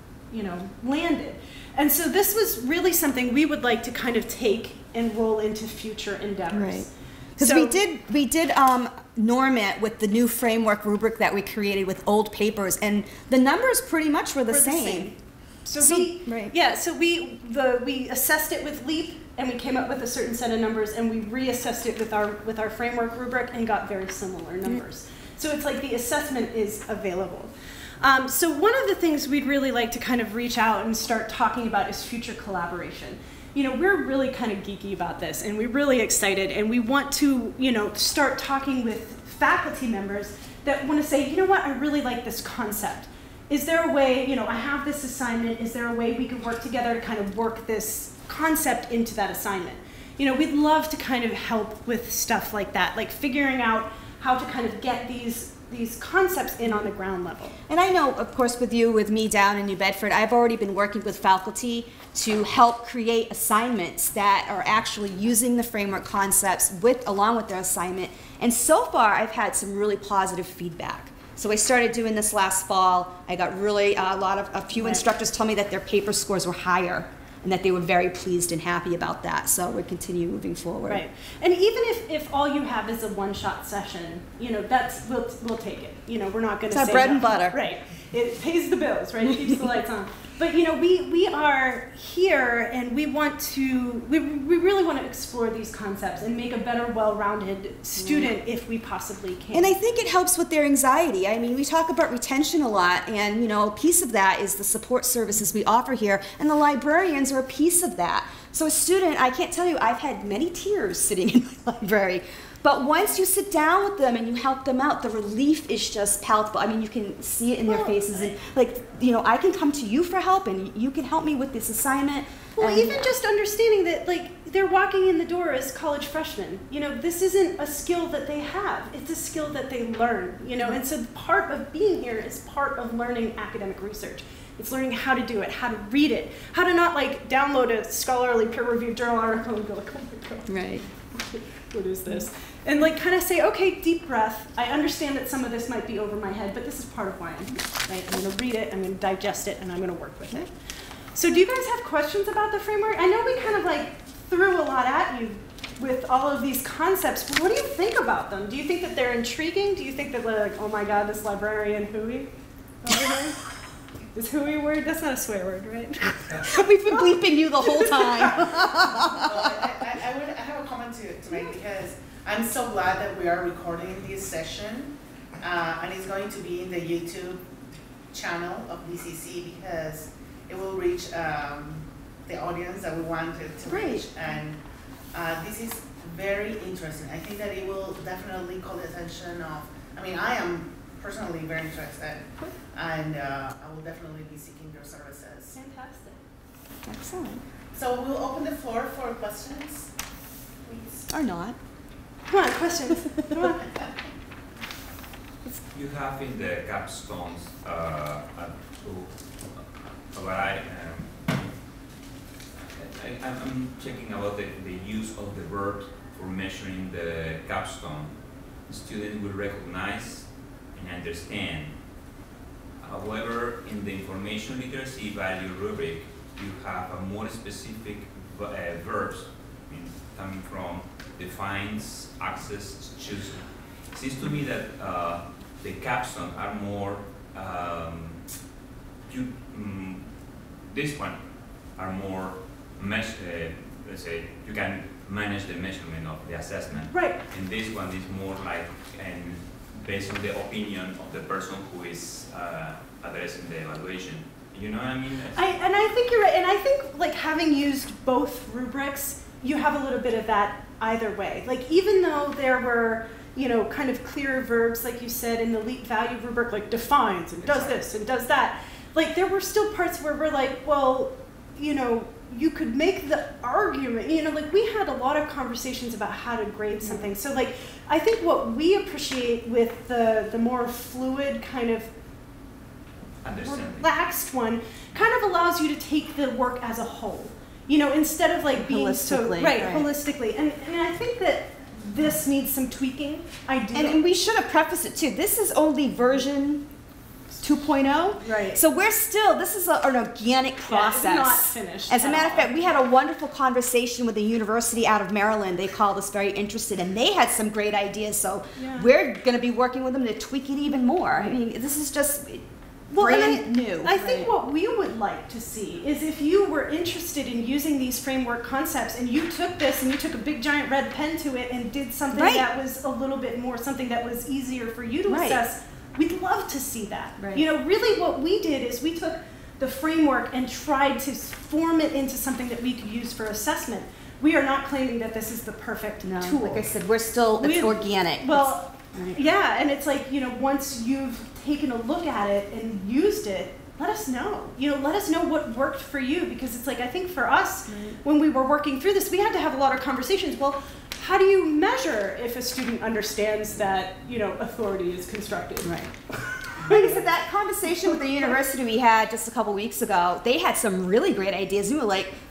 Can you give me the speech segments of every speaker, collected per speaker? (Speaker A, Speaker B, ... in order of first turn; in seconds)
Speaker A: 0.3-7.8, 14.5-57.6, 74.8-75.0, 80.8-99.7, 122.6-150.5, 151.1-162.3, 162.8-163.4, 164.1-168.7, 195.5-196.2, 202.3-203.7, 246.9-247.2, 255.3-281.9, 283.4-294.0, 298.2-298.6, 300.7-302.6, 308.6-308.9, 312.9-336.7, 337.4-355.8, 356.6-357.1, 357.8-358.3
Speaker B: 6.5-15.1, 15.8-16.5, 57.7-81.0, 86.7-87.6, 98.0-98.3, 99.5-123.1, 140.5-140.8, 166.4-169.8, 183.7-184.1, 196.8-197.4, 201.1-201.6, 276.8-277.1, 288.5-289.9, 293.7-296.6, 297.4-314.3, 322.1-322.5, 325.1-325.4, 327.2-327.4, 336.0-339.2, 347.7-347.9, 355.6-355.9, 356.5-362.1
Speaker C: 169.0-177.4, 178.1-184.6, 185.1-195.6, 197.7-199.9, 200.6-201.1
Speaker D: 205.6-211.2, 212.7-221.8, 222.8-238.3, 239.0-255.4, 283.2-283.9